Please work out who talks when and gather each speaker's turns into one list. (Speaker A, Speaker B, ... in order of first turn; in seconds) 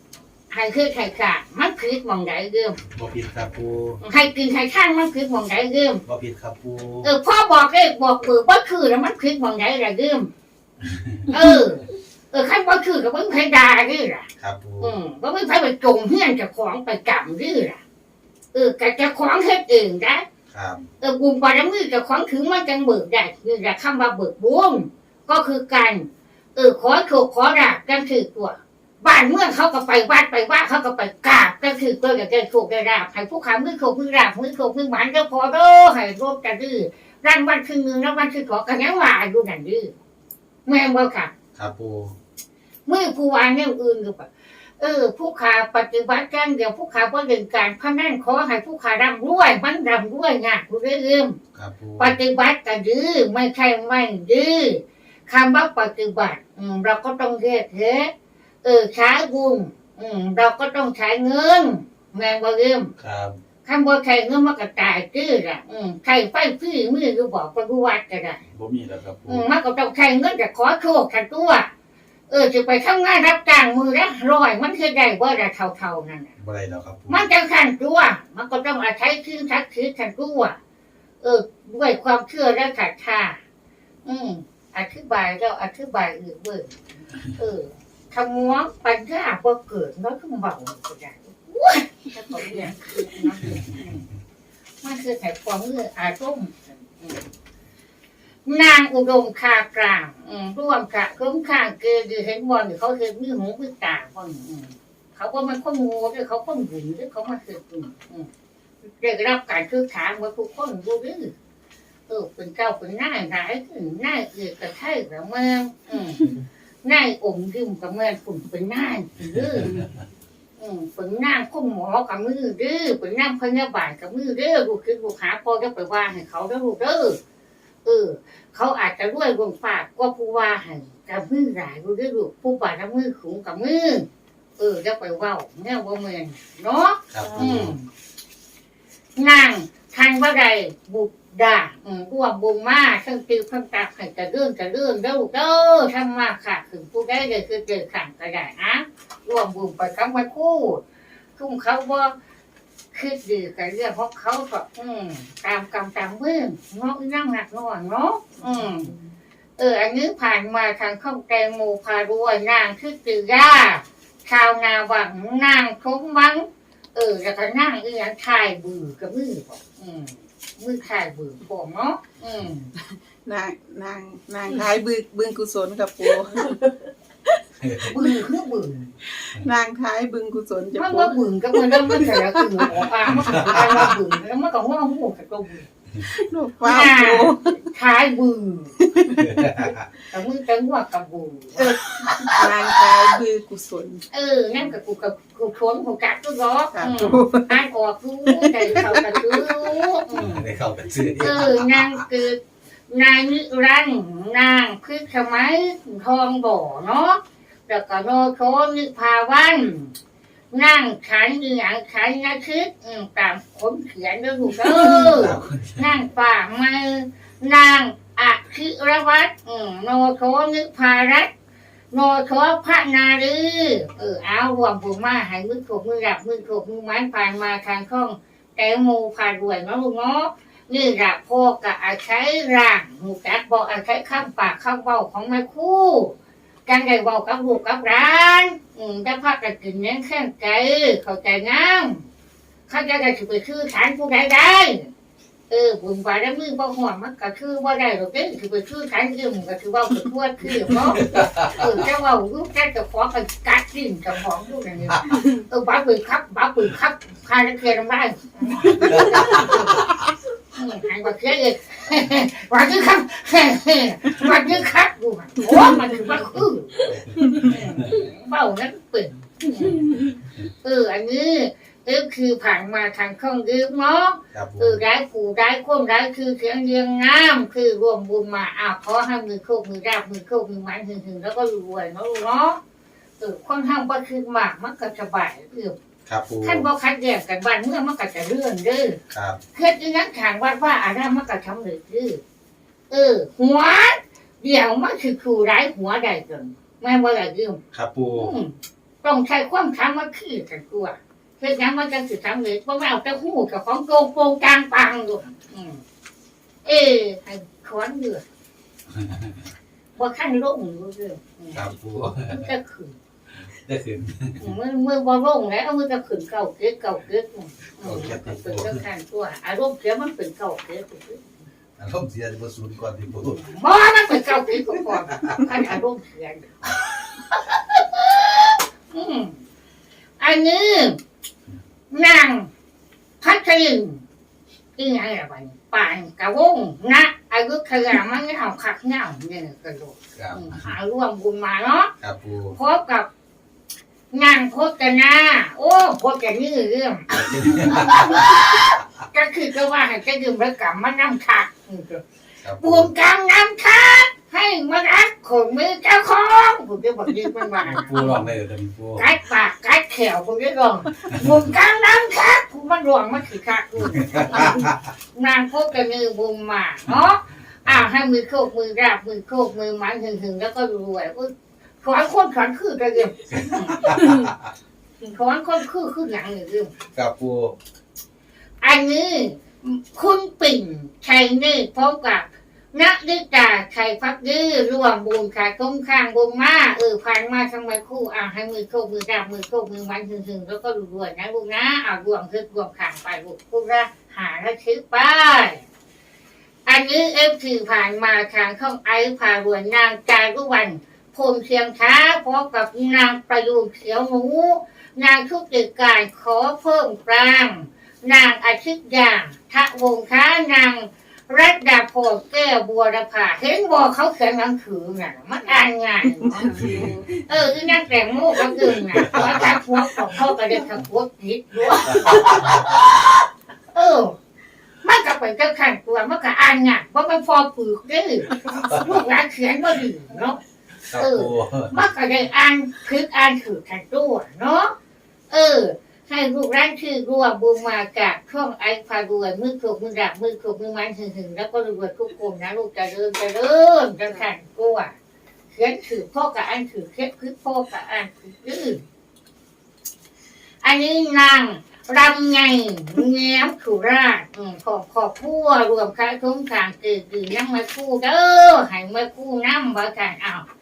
Speaker A: 0.5-2.8, 4.0-6.0, 7.0-10.3, 11.3-14.3, 14.8-17.8, 18.5-20.2, 21.0-39.9, 40.6-41.3, 42.9-44.3, 44.8-51.4, 52.0-58.1, 58.6-62.9, 63.6-68.4, 69.3-71.7, 72.3-76.3, 77.1-80.6, 81.2-83.4, 84.0-86.8, 87.3-94.1, 94.8-97.2, 98.4-108.3, 109.0-111.3, 112.1-116.3, 116.8-119.8, 120.6-127.2, 127.8-134.1, 134.6-137.9, 139.2-150.8, 151.4-152.1, 152.9-158.9, 159.6-172.7, 177.8-178.9, 180.7-185.7, 186.6-188.7, 190.1-191.7, 194.1-200.4, 201.2-209.9, 210.5-221.3, 221.9-236.1, 236.7-242.1, 242.7-244.9, 245.5-259.4, 260.5-269.9, 270.6-282.6, 283.2-285.7, 286.4-289.0, 289.5-292.2, 292.9-297.6, 298.2-305.8, 306.6-308.2, 309.9-311.7, 312.3-313.0, 314.4-321.3, 323.2-326.8, 327.3-329.4, 330.2-331.0, 331.9-332.5, 333.2-334.0, 334.8-341.9, 342.5-343.1, 344.1-352.0, 352.6-358.2, 358.9-373.9, 375.0-376.7, 378.6-395.6, 396.6-423.2, 423.7-424.2, 424.8-430.4, 431.0-434.7, 435.3-444.9, 445.5-448.8, 450.6-460.4
Speaker B: 2.9-4.0, 6.0-7.1, 10.8-11.4, 14.4-15.0, 20.5-20.9, 41.5-42.1, 51.5-52.2, 63.0-63.4, 68.5-69.5, 76.4-77.3, 93.5-93.8, 119.2-120.0, 137.1-137.7, 177.6-177.9, 183.1-183.9, 189.1-189.9, 200.1-202.0, 215.0-215.9, 250.7-251.8, 258.6-260.1, 266.9-268.1, 274.3-274.8, 286.1-286.6, 289.1-289.4, 297.7-298.3, 308.9-309.5, 311.5-312.5, 313.3-314.6, 317.8-318.8, 321.8-323.4, 325.1-325.4, 340.1-340.7, 342.0-342.6, 347.1-348.3, 352.4-352.9, 357.6-359.1, 361.1-361.4, 363.8-364.8, 373.7-374.5, 376.9-377.6, 416.5-417.2, 418.6-419.6, 421.9-422.7, 428.6-429.0, 430.9-431.8
Speaker C: 92.3-92.7, 158.4-159.1, 173.2-176.6, 179.1-182.7, 186.1-187.6, 188.8-189.2, 191.6-194.1, 196.7-197.6, 198.3-199.5, 258.6-259.5, 416.4-417.1